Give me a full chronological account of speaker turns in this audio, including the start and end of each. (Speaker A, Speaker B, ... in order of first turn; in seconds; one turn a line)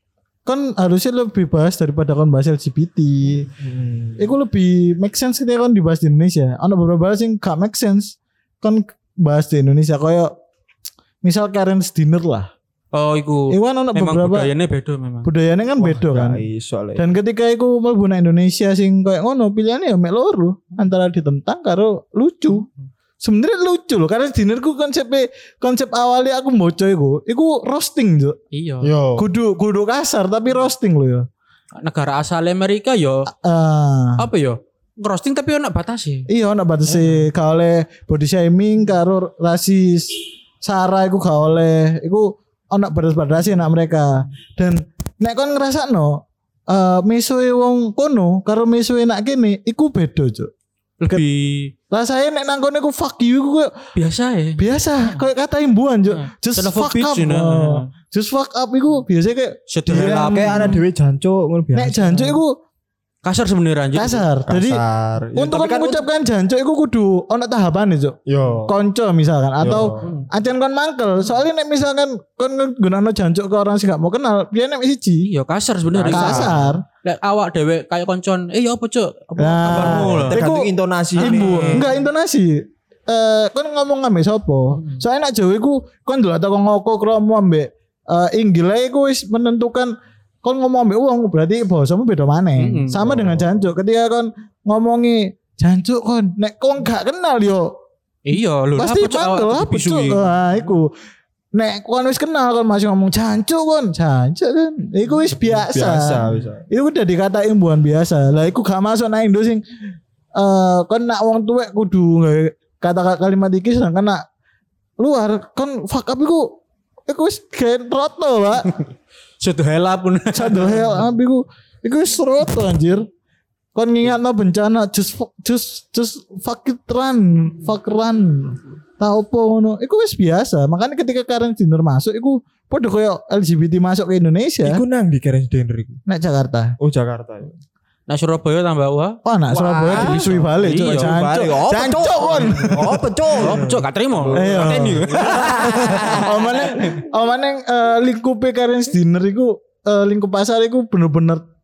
Speaker A: 0.5-3.5
Speaker B: 3.6-4.2
Speaker A: 4.2-10.3
Speaker A: 11.2-12.5
Speaker C: 12.9-15.3
Speaker A: 13.5-14.5
Speaker A: 15.2-16.4
Speaker B: 15.8-17.1
Speaker A: 16.9-22.7
Speaker A: 23.2-28.4
Speaker C: 28.5-28.9
Speaker B: 28.8-29.3
Speaker A: 29.1-31.2
Speaker C: 31.8-33.3
Speaker A: 33.3-34.3
Speaker C: 34.2-36.3
Speaker A: 36.3-50.5
Speaker C: 36.9-37.2
Speaker C: 51.0-51.7
Speaker A: 51.9-53.7
Speaker C: 53.9-55.2
Speaker A: 54.6-60.8
Speaker C: 56.1-57.9
Speaker C: 59.7-60.8
Speaker B: 59.9-62.2
Speaker A: 61.7-62.5
Speaker C: 63.2-64.2
Speaker A: 64.0-64.8
Speaker B: 64.5-66.0
Speaker A: 65.3-75.3
Speaker B: 68.3-68.7
Speaker B: 69.6-70.1
Speaker C: 75.2-80.4
Speaker B: 75.9-76.7
Speaker A: 76.1-76.8
Speaker A: 79.4-97.7
Speaker B: 79.7-81.9
Speaker C: 81.2-81.9
Speaker C: 84.7-85.0
Speaker C: 92.6-93.0
Speaker B: 93.0-93.6
Speaker C: 98.2-100.3
Speaker A: 98.8-100.9
Speaker A: 101.5-109.6
Speaker B: 105.5-106.6
Speaker A: 110.3-114.2
Speaker A: 115.0-118.7
Speaker C: 119.4-121.0
Speaker A: 120.3-123.1
Speaker A: 123.7-134.8
Speaker B: 134.6-136.0
Speaker A: 136.1-136.7
Speaker B: 136.8-137.6
Speaker C: 138.1-139.2
Speaker A: 139.2-143.6
Speaker B: 139.5-146.5
Speaker C: 139.9-141.1
Speaker C: 143.4-146.6
Speaker A: 144.3-151.4